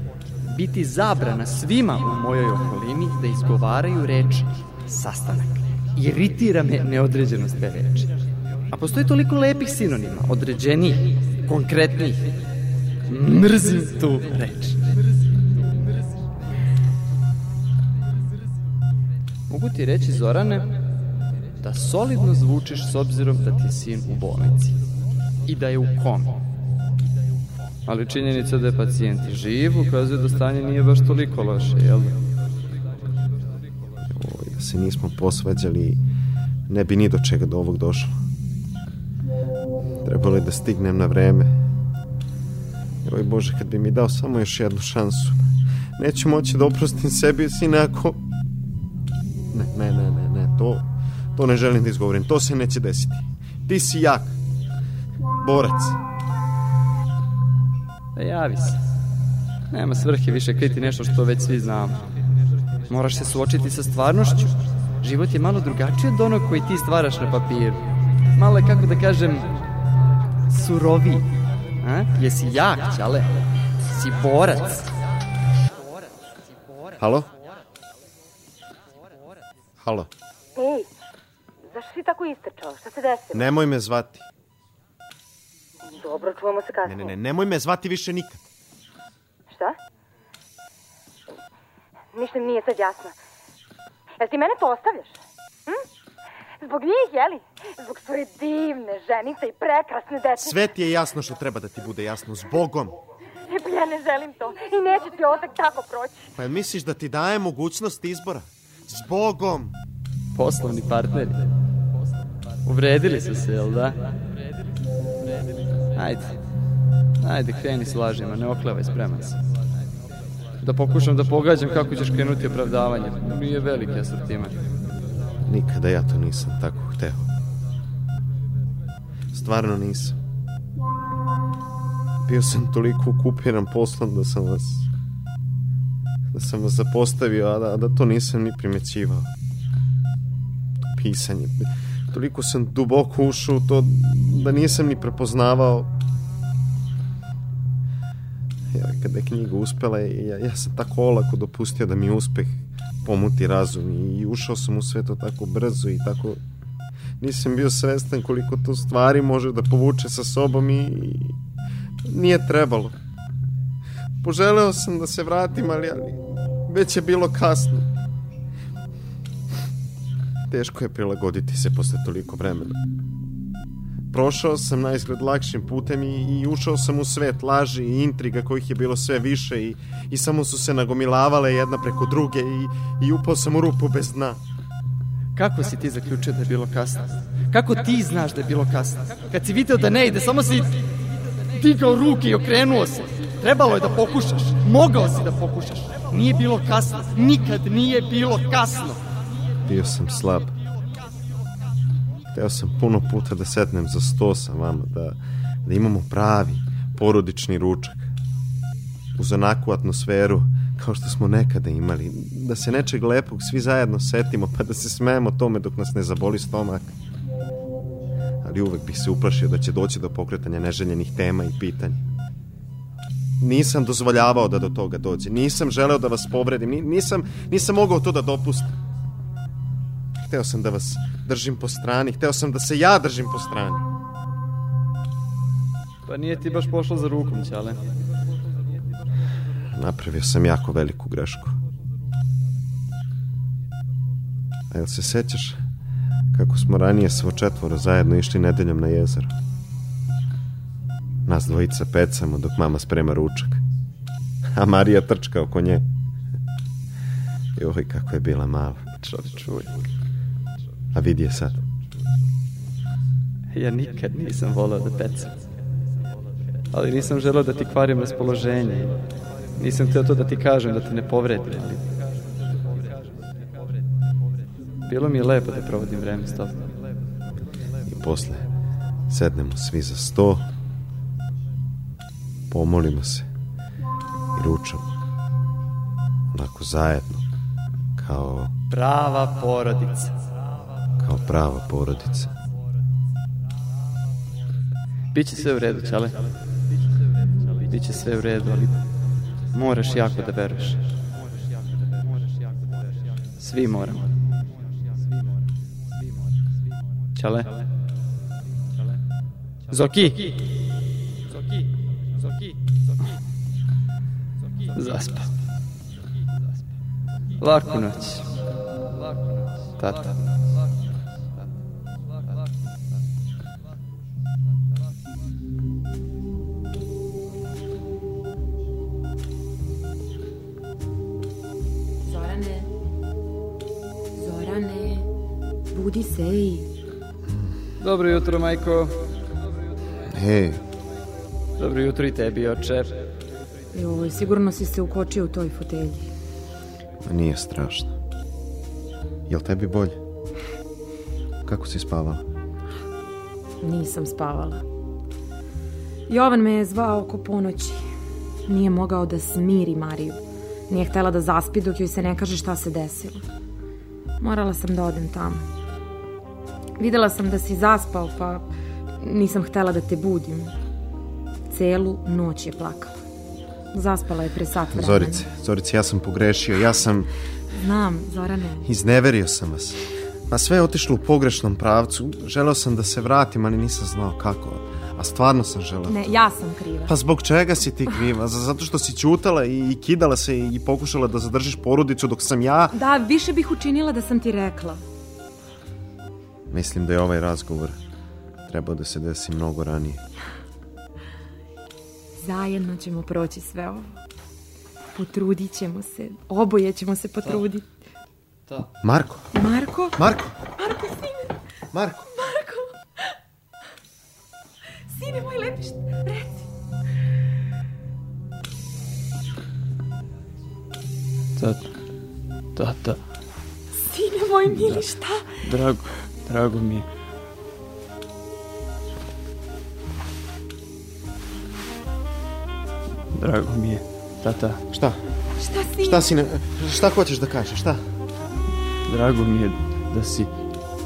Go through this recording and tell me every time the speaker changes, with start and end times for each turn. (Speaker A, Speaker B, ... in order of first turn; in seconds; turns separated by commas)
Speaker A: 0.4-8.1, Speaker A: 8.7-12.2, Speaker A: 13.1-14.9, Speaker A: 19.5-20.7, Speaker A: 21.6-24.8, Speaker A: 25.5-26.4, Speaker A: 27.9-32.2, Speaker B: 34.1-36.0, Speaker B: 36.7-38.2, Speaker B: 40.0-41.5, Speaker B: 43.0-48.2, Speaker B: 49.5-54.3, Speaker B: 55.4-56.0, Speaker A: 58.1-58.8, Speaker A: 59.7-62.0, Speaker A: 62.9-67.8, Speaker A: 68.3-69.5, Speaker A: 70.5-71.3, Speaker A: 71.8-74.9, Speaker B: 77.0-77.3, Speaker B: 79.8-80.1, Speaker C: 80.5-80.9, Speaker C: 81.7-83.5, Speaker B: 83.3-84.3, Speaker C: 85.9-87.1, Speaker B: 86.8-88.5, Speaker C: 89.5-89.8, Speaker C: 92.1-93.1, Speaker C: 94.2-95.8, Speaker C: 96.6-100.6, Speaker B: 100.3-103.0, Speaker C: 103.5-106.3, Speaker B: 106.4-109.8, Speaker A: 110.3-111.4, Speaker A: 112.7-114.0, Speaker A: 116.0-116.3, Speaker A: 117.2-119.4, Speaker A: 120.6-124.6, Speaker B: 125.4-127.3, Speaker B: 129.3-130.2, Speaker B: 132.2-134.9, Speaker B: 136.3-139.3, Speaker B: 140.8-145.9, Speaker B: 148.7-156.4, Speaker B: 157.2-161.4, Speaker B: 162.0-162.9, Speaker B: 164.2-167.9, Speaker B: 170.5-172.8, Speaker B: 174.1-184.4, Speaker A: 185.3-190.8, Speaker A: 191.6-199.0, Speaker B: 199.7-200.5, Speaker B: 202.3-208.1, Speaker B: 209.1-216.9, Speaker B: 218.4-222.0, Speaker B: 223.4-228.7, Speaker B: 230.2-233.8, Speaker A: 236.1-237.8, Speaker B: 239.7-241.6, Speaker B: 244.7-245.6, Speaker B: 246.3-249.3, Speaker B: 251.2-253.6, Speaker B: 254.5-255.8, Speaker B: 257.6-258.9, Speaker A: 259.0-259.9, Speaker B: 260.9-261.6, Speaker A: 263.5-265.4, Speaker A: 266.7-268.9, Speaker A: 269.6-271.8, Speaker A: 274.9-276.6, Speaker B: 277.8-278.5, Speaker B: 279.1-280.4, Speaker B: 282.5-283.3, Speaker B: 284.3-284.9, Speaker B: 286.3-287.2, Speaker B: 287.9-288.5, Speaker A: 288.7-290.1, Speaker B: 291.0-292.3, Speaker A: 295.1-296.2, Speaker A: 297.6-298.8, Speaker A: 299.5-300.8, Speaker A: 303.4-304.1, Speaker A: 307.1-307.5, Speaker A: 309.7-310.3, Speaker A: 314.7-315.3, Speaker A: 317.4-318.3, Speaker A: 319.7-320.2, Speaker D: 332.0-332.7, Speaker D: 334.1-335.1, Speaker D: 335.7-336.7, Speaker B: 337.3-337.6, Speaker A: 337.8-338.9, Speaker B: 340.0-340.6, Speaker A: 341.6-342.9, Speaker D: 343.7-346.1, Speaker B: 347.0-347.9, Speaker B: 349.3-350.0, Speaker B: 351.4-352.2, Speaker D: 353.6-354.6, Speaker D: 356.1-357.9, Speaker D: 358.4-363.2, Speaker D: 364.2-365.5, Speaker D: 366.8-368.5, Speaker D: 369.0-370.5, Speaker D: 371.5-372.9, Speaker D: 373.7-375.2, Speaker B: 374.7-377.1, Speaker D: 377.5-378.7, Speaker B: 378.6-386.1, Speaker D: 385.9-386.9, Speaker B: 386.9-392.8, Speaker D: 392.7-394.8, Speaker B: 396.5-397.8, Speaker B: 398.5-400.0, Speaker D: 402.2-403.9, Speaker D: 404.9-407.7, Speaker B: 408.8-409.3, Speaker D: 409.3-411.4, Speaker B: 409.9-410.3, Speaker B: 411.7-412.1, Speaker D: 412.1-413.1, Speaker D: 414.9-416.5, Speaker A: 421.4-421.7, Speaker A: 422.6-423.0, Speaker D: 423.7-425.3, Speaker A: 424.5-424.8, Speaker A: 425.4-426.9, Speaker A: 433.1-434.6, Speaker B: 434.7-435.0, Speaker D: 435.4-436.0, Speaker B: 435.8-437.8, Speaker A: 438.9-440.3